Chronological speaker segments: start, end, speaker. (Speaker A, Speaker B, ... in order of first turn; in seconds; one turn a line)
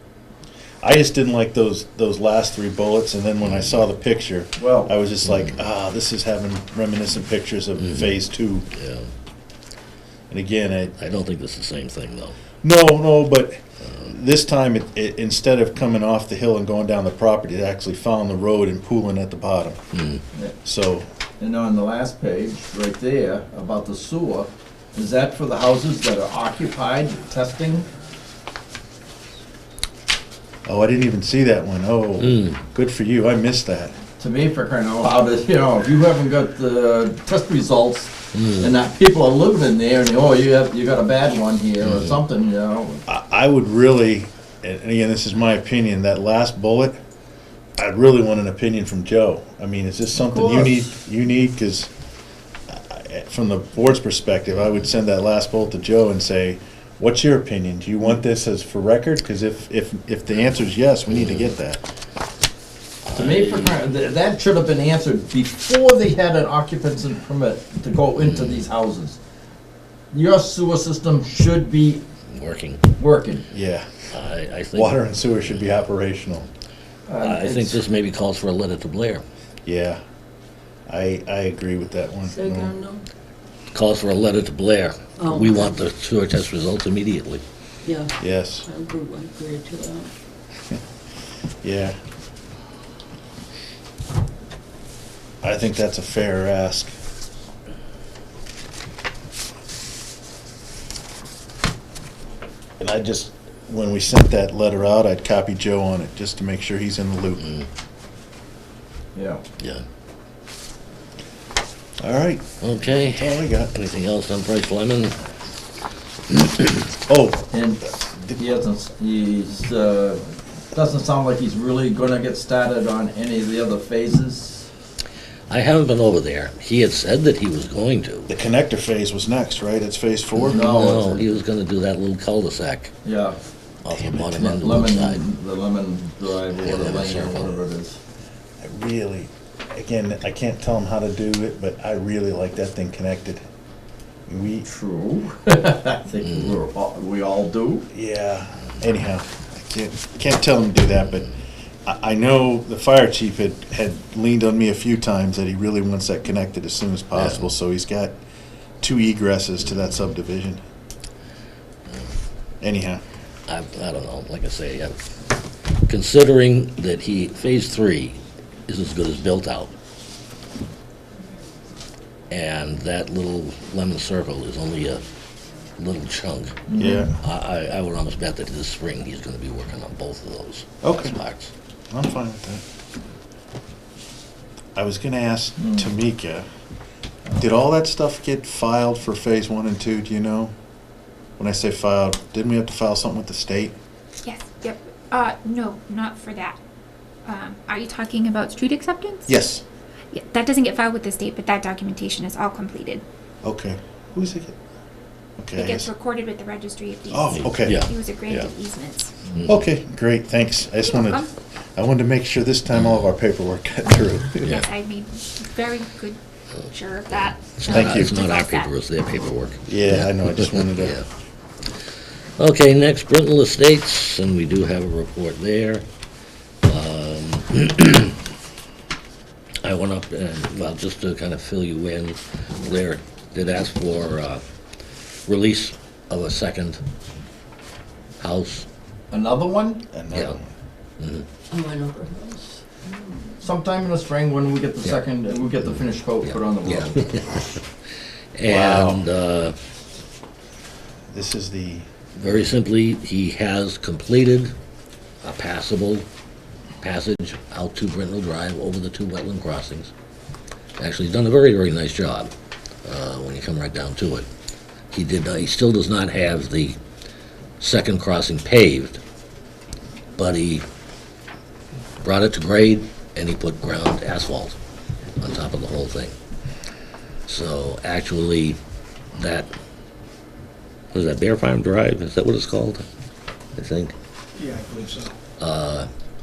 Speaker A: 0.8-8.7
Speaker B: 3.4-3.7
Speaker C: 4.5-4.9
Speaker B: 5.2-5.5
Speaker B: 7.8-8.2
Speaker B: 8.7-9.1
Speaker A: 10.3-10.9
Speaker B: 11.0-12.3
Speaker A: 12.6-19.8
Speaker B: 19.9-20.2
Speaker A: 20.6-21.1
Speaker C: 21.4-27.9
Speaker A: 30.6-33.9
Speaker B: 32.2-32.6
Speaker C: 34.2-43.0
Speaker B: 38.3-38.7
Speaker B: 41.8-42.2
Speaker A: 43.1-47.0
Speaker A: 47.8-51.9
Speaker C: 50.1-50.9
Speaker A: 52.7-61.8
Speaker B: 61.1-61.5
Speaker B: 63.0-63.8
Speaker C: 63.1-69.2
Speaker B: 68.2-68.6
Speaker C: 70.1-72.0
Speaker B: 72.3-72.8
Speaker C: 73.0-73.5
Speaker A: 73.5-73.9
Speaker B: 74.1-75.7
Speaker A: 74.7-76.5
Speaker C: 77.1-77.8
Speaker B: 77.2-79.2
Speaker A: 79.6-80.0
Speaker A: 80.9-82.8
Speaker D: 82.2-83.1
Speaker B: 83.7-87.4
Speaker D: 85.2-85.7
Speaker D: 87.8-90.1
Speaker A: 88.2-88.7
Speaker A: 91.6-92.0
Speaker A: 95.4-96.9
Speaker A: 102.8-107.5
Speaker B: 107.4-107.7
Speaker C: 109.1-109.4
Speaker B: 109.6-109.8
Speaker A: 112.0-112.5
Speaker B: 112.6-115.2
Speaker A: 113.0-113.7
Speaker B: 116.3-116.8
Speaker A: 117.1-117.4
Speaker C: 117.5-124.7
Speaker A: 118.1-118.4
Speaker B: 125.5-128.3
Speaker A: 128.3-130.7
Speaker B: 130.4-132.9
Speaker C: 130.5-131.3
Speaker C: 133.0-133.4
Speaker B: 133.8-135.2
Speaker C: 133.9-138.0
Speaker B: 136.6-137.5
Speaker A: 138.6-143.4
Speaker A: 144.3-144.7
Speaker C: 144.6-147.8
Speaker A: 147.9-151.3
Speaker A: 151.8-158.1
Speaker B: 157.1-157.5
Speaker A: 158.8-160.6
Speaker B: 161.9-162.1
Speaker A: 162.6-163.0
Speaker B: 163.5-165.0
Speaker B: 165.9-169.7
Speaker B: 172.3-175.0
Speaker B: 175.8-176.6
Speaker C: 176.7-177.1
Speaker A: 176.8-177.2
Speaker B: 177.2-181.5
Speaker A: 180.8-181.2
Speaker A: 181.9-182.6
Speaker A: 184.7-186.4
Speaker C: 185.6-185.9
Speaker A: 187.4-190.5
Speaker A: 191.4-193.7
Speaker E: 194.2-196.6
Speaker E: 197.2-199.3
Speaker A: 199.3-199.6
Speaker E: 200.1-203.0
Speaker A: 203.4-204.6
Speaker A: 205.4-205.9
Speaker E: 205.6-209.1
Speaker A: 207.1-207.8
Speaker B: 207.3-208.5
Speaker B: 209.3-209.6
Speaker A: 209.4-214.5
Speaker E: 210.8-211.3
Speaker B: 212.7-213.1
Speaker E: 214.3-218.7
Speaker B: 214.4-214.7
Speaker B: 217.1-221.1
Speaker A: 217.7-218.1
Speaker A: 219.7-221.0
Speaker B: 222.4-225.8
Speaker B: 226.6-228.2
Speaker B: 229.6-234.4
Speaker B: 235.3-236.8
Speaker B: 238.2-238.7
Speaker C: 239.1-239.8
Speaker A: 239.9-240.5
Speaker B: 240.1-240.4
Speaker B: 241.0-241.3
Speaker D: 241.5-243.4
Speaker C: 243.4-247.1
Speaker B: 245.6-247.7
Speaker B: 248.3-249.6
Speaker A: 248.4-249.1
Speaker A: 251.1-251.9
Speaker B: 252.2-254.5
Speaker B: 255.2-256.1
Speaker B: 256.8-259.9
Speaker B: 260.8-262.3
Speaker B: 262.8-264.3
Speaker B: 264.9-266.8
Speaker B: 267.6-269.0
Speaker B: 270.2-270.6
Speaker B: 272.0-274.6
Speaker B: 275.2-276.1
Speaker B: 277.3-278.6
Speaker B: 279.2-279.5
Speaker B: 280.9-282.9
Speaker B: 283.6-283.9
Speaker B: 285.4-285.9